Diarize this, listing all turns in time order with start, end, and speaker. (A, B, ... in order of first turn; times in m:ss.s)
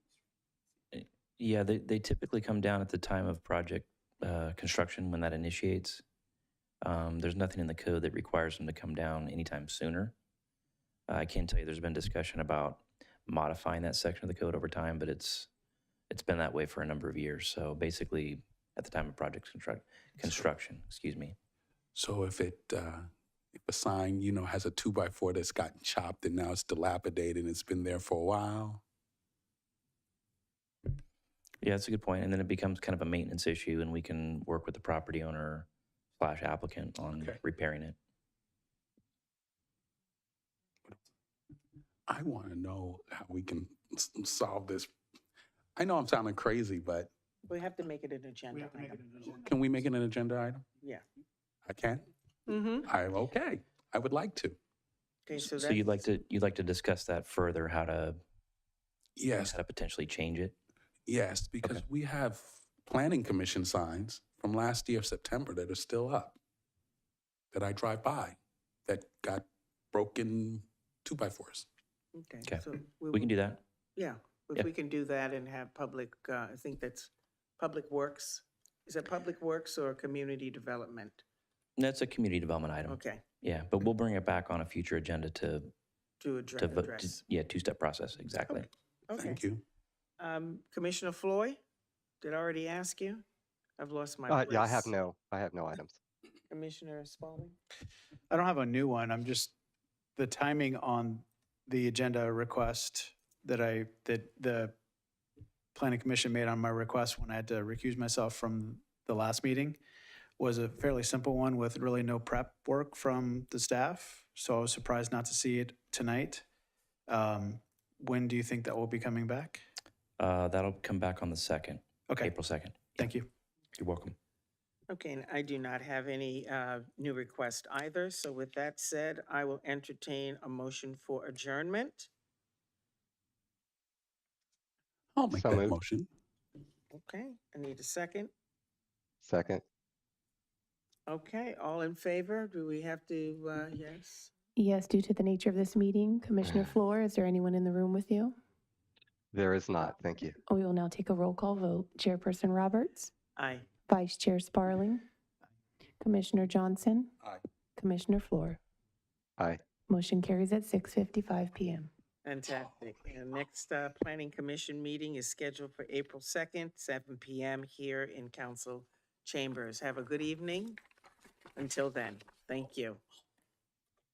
0:00.9-0:06.0 A
0:06.8-0:10.1 A
0:11.1-0:15.5 A
0:16.1-0:21.4 A
0:20.2-0:20.5 B
0:22.0-0:28.8 B
0:31.6-0:35.7 A
0:36.2-0:38.0 A
0:42.1-0:44.9 B
0:45.8-0:47.1 B
0:47.5-0:49.0 C
0:48.5-0:49.5 D
0:49.4-0:50.6 B
0:51.6-0:52.1 B
0:52.5-0:52.9 C
0:52.9-0:54.6 B
0:55.3-0:56.1 C
0:55.4-0:58.2 A
0:59.2-0:59.6 B
0:59.4-1:00.6 A
1:01.1-1:06.4 B
1:07.5-1:11.7 B
1:12.1-1:13.4 C
1:12.4-1:13.6 A
1:14.0-1:21.2 C
1:21.8-1:25.7 A
1:22.9-1:23.2 C
1:26.2-1:27.2 C
1:26.6-1:28.7 A
1:28.5-1:29.4 C
1:29.1-1:29.6 B
1:30.2-1:31.6 C
1:32.2-1:33.2 C
1:33.8-1:34.9 C
1:34.3-1:36.0 E
1:36.5-1:37.6 C
1:38.3-1:39.5 D
1:40.2-1:44.8 D
1:45.8-1:49.8 D
1:50.4-1:56.5 D
1:57.1-1:59.6 D
2:00.2-2:03.0 A
2:03.0-2:03.3 D
2:03.8-2:04.2 A
2:04.9-2:12.1 C
2:15.2-2:16.1 B
2:15.3-2:15.8 E
2:16.9-2:18.3 C
2:19.2-2:19.6 E
2:21.1-2:24.3 C
2:24.6-2:28.4 F
2:29.3-2:30.4 E
2:30.5-2:33.1 F
2:33.4-2:33.7 C
2:33.9-2:35.0 F
2:36.0-2:37.2 F
2:37.8-2:38.6 F
2:39.9-2:41.9 F
2:42.2-2:50.8 C
2:51.6-2:53.0 C